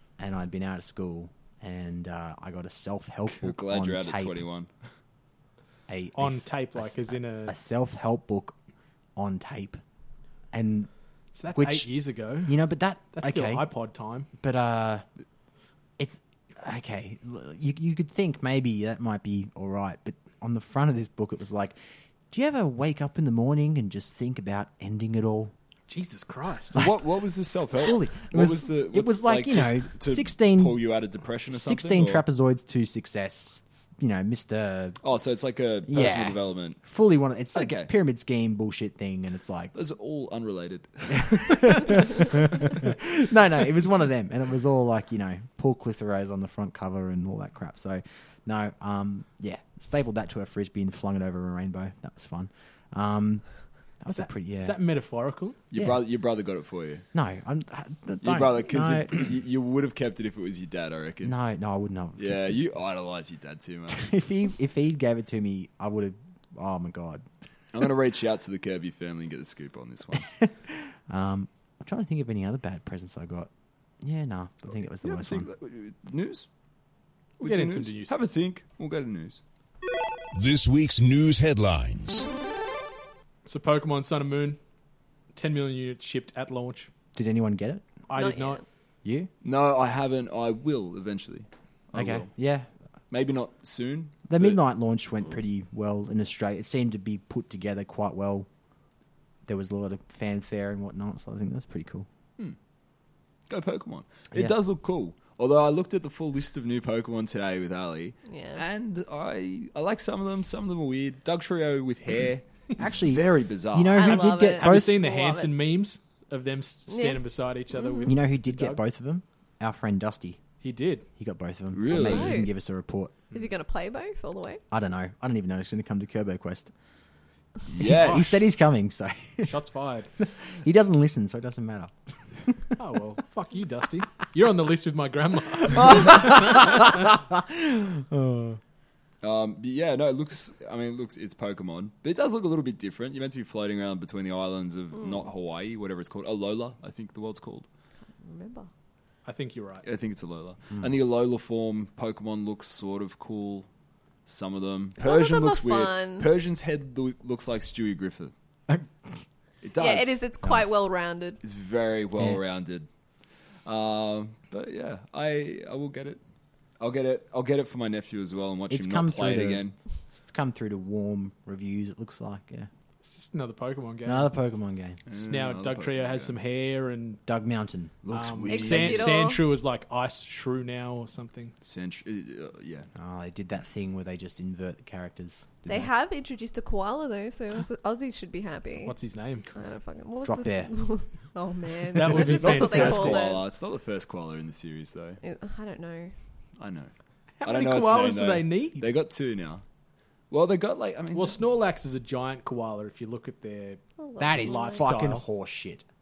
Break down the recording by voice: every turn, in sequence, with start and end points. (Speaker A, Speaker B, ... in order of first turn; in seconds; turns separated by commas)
Speaker A: 0.2-4.4, Speaker B: 3.4-4.7, Speaker A: 5.9-8.5, Speaker C: 6.2-7.5, Speaker A: 9.2-9.8, Speaker A: 10.5-10.9, Speaker C: 11.3-14.3, Speaker A: 11.5-11.9, Speaker A: 12.4-13.7, Speaker A: 14.4-15.1, Speaker A: 16.0-21.8, Speaker A: 22.3-25.5, Speaker C: 25.9-26.8, Speaker B: 26.7-32.2, Speaker A: 27.6-30.8, Speaker A: 31.5-35.0, Speaker B: 35.0-36.8, Speaker A: 35.9-39.7, Speaker B: 37.5-37.9, Speaker B: 39.7-42.0, Speaker A: 41.1-53.5, Speaker A: 54.0-54.8, Speaker C: 54.1-55.6, Speaker B: 55.7-57.0, Speaker A: 57.1-59.3, Speaker B: 58.2-61.4, Speaker A: 61.2-62.6, Speaker B: 62.2-64.1, Speaker A: 63.9-67.2, Speaker B: 67.7-70.3, Speaker A: 70.2-73.5, Speaker A: 74.0-75.5, Speaker B: 75.0-76.5, Speaker B: 77.4-79.4, Speaker C: 77.4-78.2, Speaker D: 80.3-82.3, Speaker C: 83.4-84.6, Speaker C: 85.3-86.9, Speaker A: 87.1-87.8, Speaker C: 88.1-88.6, Speaker E: 88.1-88.6, Speaker A: 89.0-89.3, Speaker B: 89.4-92.3, Speaker A: 91.9-92.7, Speaker B: 93.1-94.6, Speaker A: 94.3-98.5, Speaker A: 99.5-102.1, Speaker B: 103.5-114.3, Speaker E: 108.3-108.6, Speaker A: 112.8-115.0, Speaker E: 113.9-115.5, Speaker C: 114.5-118.8, Speaker E: 116.9-118.1, Speaker A: 118.0-120.4, Speaker C: 120.6-121.0, Speaker A: 121.2-123.1, Speaker B: 121.7-122.4, Speaker E: 121.9-122.5, Speaker E: 123.3-124.6, Speaker A: 124.7-126.7, Speaker B: 127.7-128.4, Speaker A: 127.8-129.5, Speaker C: 127.9-128.2, Speaker C: 129.4-130.1, Speaker A: 130.2-132.6, Speaker C: 132.8-136.8, Speaker A: 135.7-138.6, Speaker B: 139.2-147.7, Speaker E: 145.0-145.2, Speaker E: 148.2-148.7, Speaker C: 149.2-149.8, Speaker B: 149.8-153.7, Speaker B: 154.2-158.3, Speaker E: 155.0-156.3, Speaker B: 159.6-160.2, Speaker E: 159.8-161.4, Speaker A: 160.4-160.7, Speaker B: 161.4-162.9, Speaker B: 163.7-166.2, Speaker B: 166.8-169.8, Speaker A: 168.7-172.7, Speaker C: 173.0-174.3, Speaker A: 174.0-175.0, Speaker B: 175.1-176.3, Speaker C: 175.2-177.2, Speaker A: 177.3-177.9, Speaker B: 178.0-179.2, Speaker C: 178.1-181.5, Speaker E: 178.5-179.4, Speaker B: 181.6-182.9, Speaker A: 182.9-185.9, Speaker E: 185.7-188.9, Speaker C: 188.8-189.5, Speaker E: 189.5-193.4, Speaker A: 190.2-190.7, Speaker C: 191.9-193.2, Speaker B: 192.1-195.2, Speaker E: 195.2-196.1, Speaker B: 196.6-196.9, Speaker C: 197.4-198.8, Speaker B: 197.4-199.6, Speaker B: 200.3-201.4, Speaker C: 201.1-203.8, Speaker E: 204.0-204.9, Speaker A: 204.2-205.8, Speaker C: 204.3-205.2